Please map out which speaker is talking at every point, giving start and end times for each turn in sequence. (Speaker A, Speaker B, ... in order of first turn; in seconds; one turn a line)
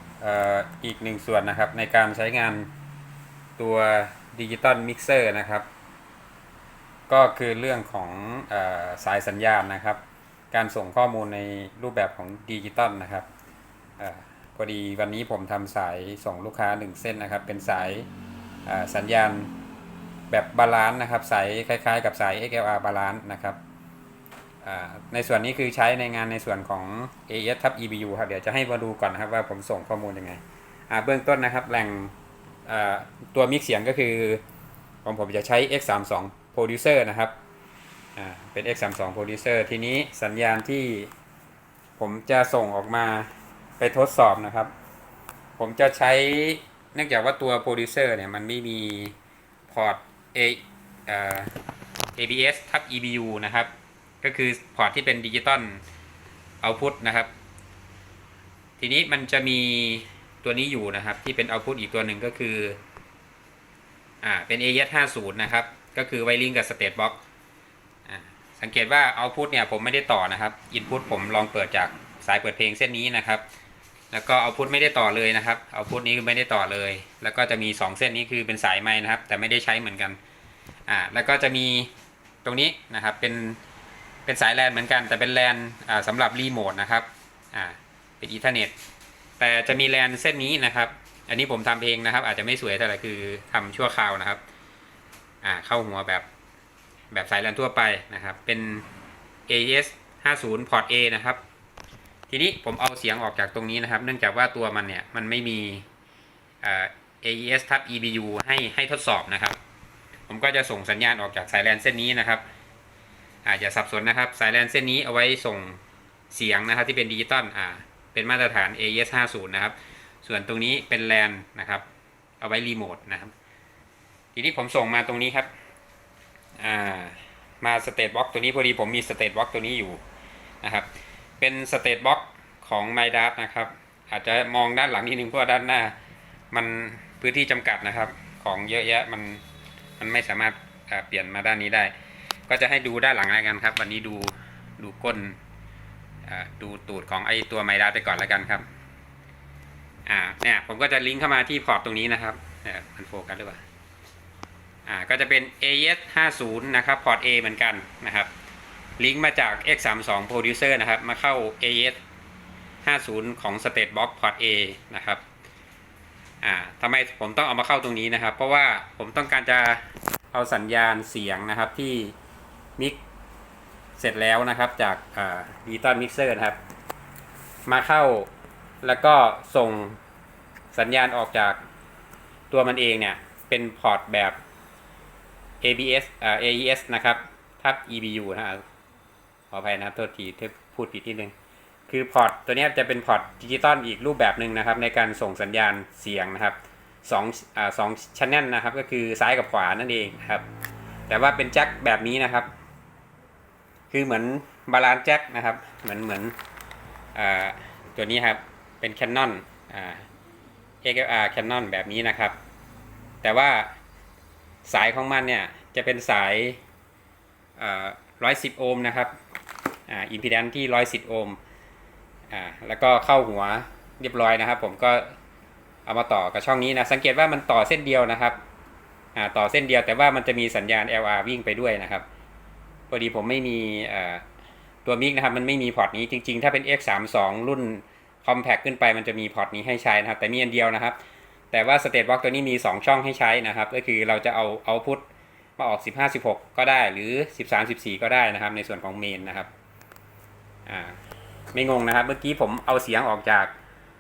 Speaker A: 0.2-2.7
Speaker A: 3.6-5.7
Speaker A: 7.1-10.0
Speaker A: 10.5-13.3
Speaker A: 14.0-18.1
Speaker A: 18.7-19.5
Speaker A: 20.3-23.6
Speaker A: 24.6-32.1
Speaker A: 32.7-34.4
Speaker A: 35.0-37.3
Speaker A: 38.2-41.1
Speaker A: 42.0-44.7
Speaker A: 45.6-49.2
Speaker A: 49.7-51.5
Speaker A: 52.2-53.7
Speaker A: 54.2-55.8
Speaker A: 56.6-57.3
Speaker A: 58.8-62.8
Speaker A: 64.2-67.2
Speaker A: 68.1-73.4
Speaker A: 74.1-80.2
Speaker A: 80.9-81.9
Speaker A: 82.4-83.6
Speaker A: 84.3-88.7
Speaker A: 89.4-94.4
Speaker A: 95.4-96.3
Speaker A: 97.1-98.9
Speaker A: 99.5-101.4
Speaker A: 102.3-105.9
Speaker A: 106.6-109.6
Speaker A: 110.3-112.4
Speaker A: 113.5-121.8
Speaker A: 122.4-123.3
Speaker A: 124.3-125.5
Speaker A: 126.6-130.0
Speaker A: 130.6-130.9
Speaker A: 131.4-136.0
Speaker A: 136.5-139.4
Speaker A: 140.0-141.9
Speaker A: 142.5-145.4
Speaker A: 146.2-148.6
Speaker A: 150.1-153.6
Speaker A: 154.9-158.3
Speaker A: 159.0-162.0
Speaker A: 162.8-165.2
Speaker A: 166.4-172.1
Speaker A: 174.0-176.6
Speaker A: 177.7-178.3
Speaker A: 178.8-180.0
Speaker A: 180.7-181.6
Speaker A: 182.5-184.4
Speaker A: 185.6-188.6
Speaker A: 189.5-191.3
Speaker A: 191.9-200.5
Speaker A: 201.1-202.5
Speaker A: 203.9-206.3
Speaker A: 207.2-210.1
Speaker A: 210.8-212.4
Speaker A: 213.2-213.7
Speaker A: 214.7-216.6
Speaker A: 217.6-219.2
Speaker A: 219.9-221.4
Speaker A: 222.3-225.2
Speaker A: 225.9-228.4
Speaker A: 229.2-232.1
Speaker A: 232.9-234.2
Speaker A: 234.8-241.0
Speaker A: 241.5-245.0
Speaker A: 245.6-249.5
Speaker A: 250.7-251.0
Speaker A: 251.5-253.5